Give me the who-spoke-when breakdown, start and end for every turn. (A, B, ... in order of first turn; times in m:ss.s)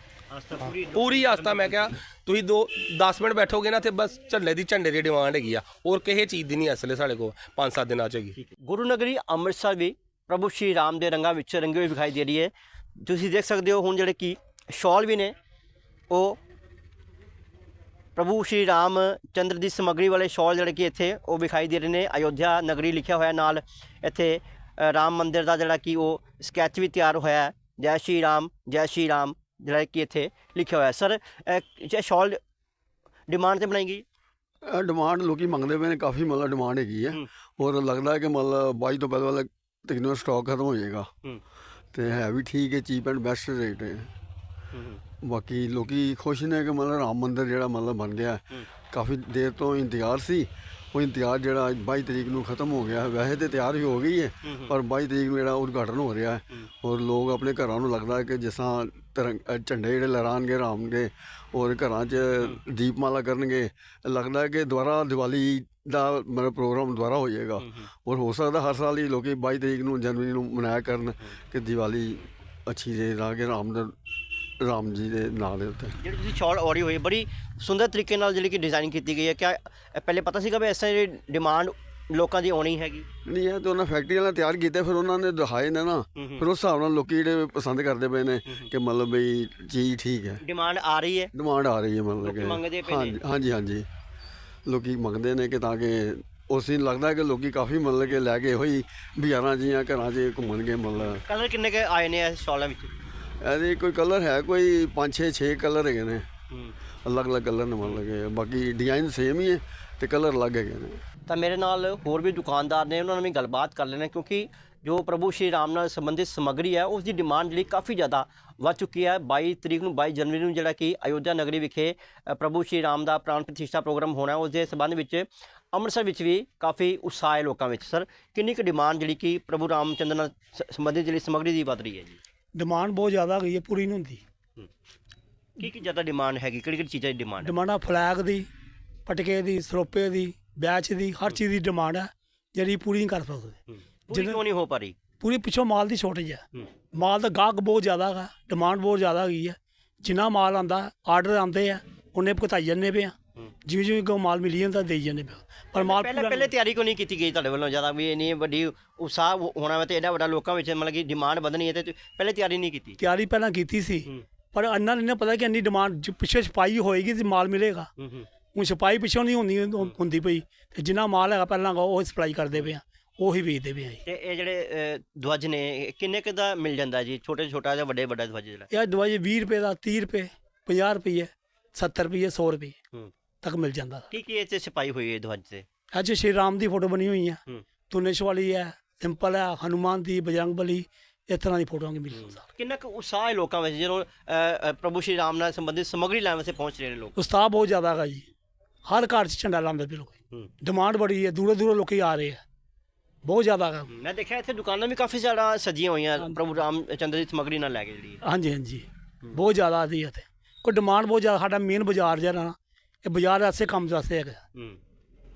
0:00.3-0:01.9 A
0:00.6-0:08.4 B
0:08.4-0:15.4 A
0:16.1-0:16.4 A
0:18.2-0:32.4 A
0:33.3-0:34.0 A
0:34.6-0:41.1 C
0:41.9-0:44.1 C
0:44.7-0:45.0 A
0:45.2-1:13.9 C
0:54.5-0:54.8 A
1:07.6-1:07.9 A
1:14.6-1:16.0 C
1:16.0-1:23.1 A
1:23.3-1:30.4 C
1:26.2-1:26.5 A
1:30.4-1:31.3 A
1:31.3-1:33.8 C
1:32.2-1:33.2 A
1:34.7-1:41.2 C
1:41.0-1:42.9 A
1:43.4-1:46.3 C
1:47.0-1:51.0 C
1:51.3-2:12.2 A
2:12.6-2:14.2 D
2:15.6-2:17.6 A
2:17.4-2:18.5 D
2:19.1-2:23.6 D
2:23.7-2:25.0 A
2:24.1-2:24.4 D
2:25.2-2:36.5 D
2:35.8-2:43.0 A
2:43.0-2:47.9 D
2:48.0-2:48.3 A
2:48.5-2:54.0 D
2:54.0-2:58.7 A
2:58.7-3:02.8 D
3:03.4-3:04.1 D
3:04.1-3:05.7 A
3:05.9-3:12.4 D
3:12.1-3:17.2 A
3:17.2-3:18.3 D
3:18.9-3:22.4 D
3:23.2-3:23.9 D
3:23.9-3:28.2 A
3:28.2-3:34.4 D